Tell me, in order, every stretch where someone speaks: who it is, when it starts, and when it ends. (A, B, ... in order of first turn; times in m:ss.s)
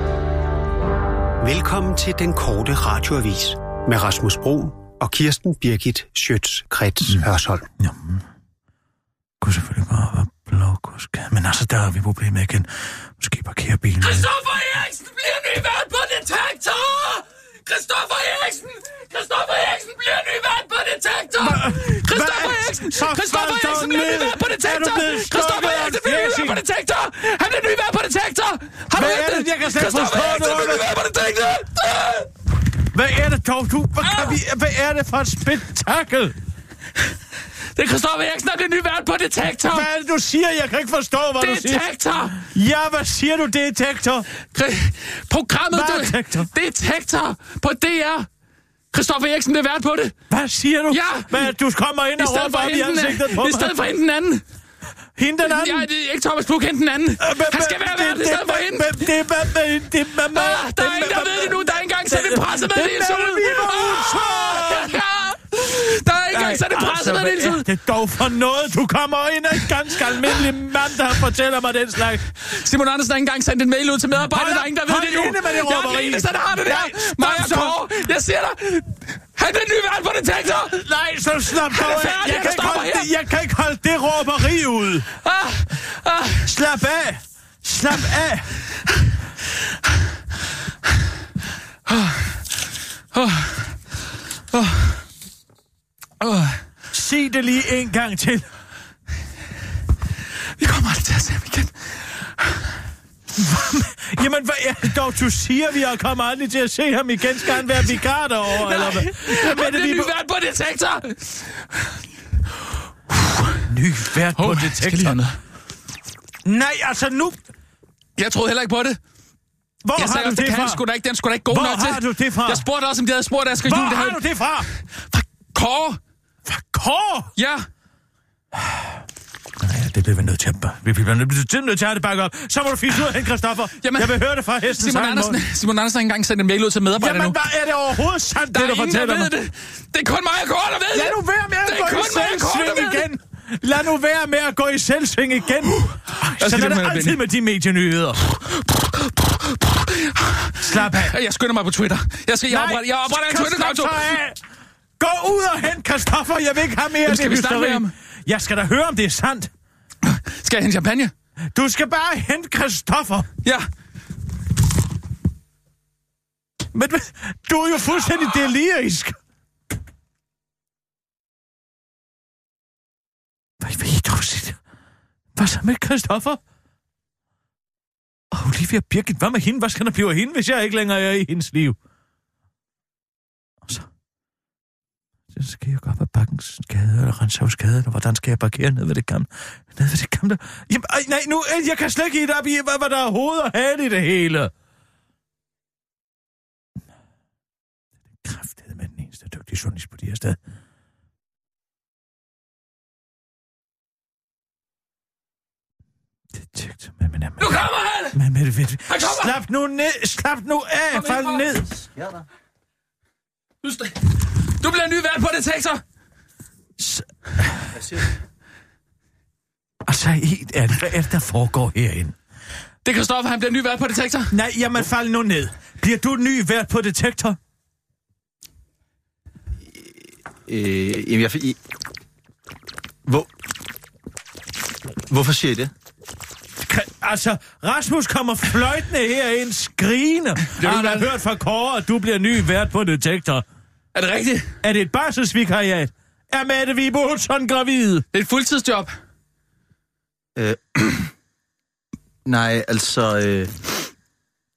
0:01.4-0:07.7 A
0:07.8-0:08.2 B
0:09.4-0:14.3 B
0:14.0-0:32.3 C
0:21.4-0:26.6 B
0:28.9-0:31.0 B
0:32.9-0:36.4 B
0:34.1-0:34.3 C
0:37.7-0:39.9 C
0:39.7-0:44.3 B
0:41.4-0:42.4 C
0:44.5-0:48.3 C
0:45.7-0:46.5 B
0:48.9-0:50.2 C
0:50.3-0:53.7 B
0:50.9-0:51.5 C
0:52.2-0:54.4 C
0:55.2-0:55.9 B
0:55.4-0:59.3 C
0:57.2-1:05.0 B
1:00.3-1:07.6 C
1:06.3-1:12.2 B
1:10.0-1:10.5 C
1:12.4-1:20.8 C
1:14.2-1:17.9 B
1:20.6-1:25.1 B
1:21.5-1:23.1 C
1:25.2-1:26.5 C
1:26.4-1:28.5 B
1:31.9-1:32.4 C
1:33.1-1:33.8 C
1:34.5-1:35.0 C
1:36.2-1:36.6 C
1:36.9-1:38.5 B
1:40.6-1:42.7 C
1:43.4-1:50.1 B
1:47.6-1:47.9 C
1:48.5-1:52.0 C
1:53.1-1:53.7 C
1:53.7-1:55.2 B
1:54.3-1:55.4 C
1:56.4-1:57.4 B
1:58.2-1:59.0 C
1:59.8-2:00.8 B
2:00.0-2:06.0 C
2:01.5-2:02.6 B
2:03.6-2:04.7 B
2:06.5-2:07.3 B
2:07.4-2:07.7 C
2:08.6-2:09.0 B
2:09.6-2:15.4 B
2:13.8-2:17.4 C
2:17.0-2:19.3 B
2:18.5-2:23.1 C
2:20.9-2:28.2 B
2:25.8-2:27.2 C
2:28.5-2:34.2 C
2:30.6-2:31.1 B
2:32.5-2:34.4 B
2:35.0-2:39.5 B
2:37.0-2:37.9 C
2:40.0-2:41.1 C
2:41.5-2:43.3 B
2:46.7-2:49.2 B
2:53.6-2:54.6 B
2:55.4-2:56.4 B
2:58.3-3:01.8 B
3:05.3-3:14.5 B
3:18.2-3:20.4 B
3:26.4-3:27.5 B
3:27.4-3:28.2 C
3:28.1-3:31.7 B
3:28.9-3:29.3 C
3:30.9-3:31.4 C
3:32.0-3:32.2 D
3:33.6-3:35.8 C
3:36.8-3:37.6 B
3:39.8-3:42.2 B
3:42.8-3:44.3 C
3:44.3-3:47.4 B
3:50.5-3:51.6 D
3:55.1-3:55.7 D
3:56.6-4:03.4 B
4:00.4-4:01.1 C
4:04.0-4:04.5 C
4:04.6-4:08.1 B
4:08.1-4:08.9 C
4:10.4-4:11.1 D
4:12.3-4:13.8 D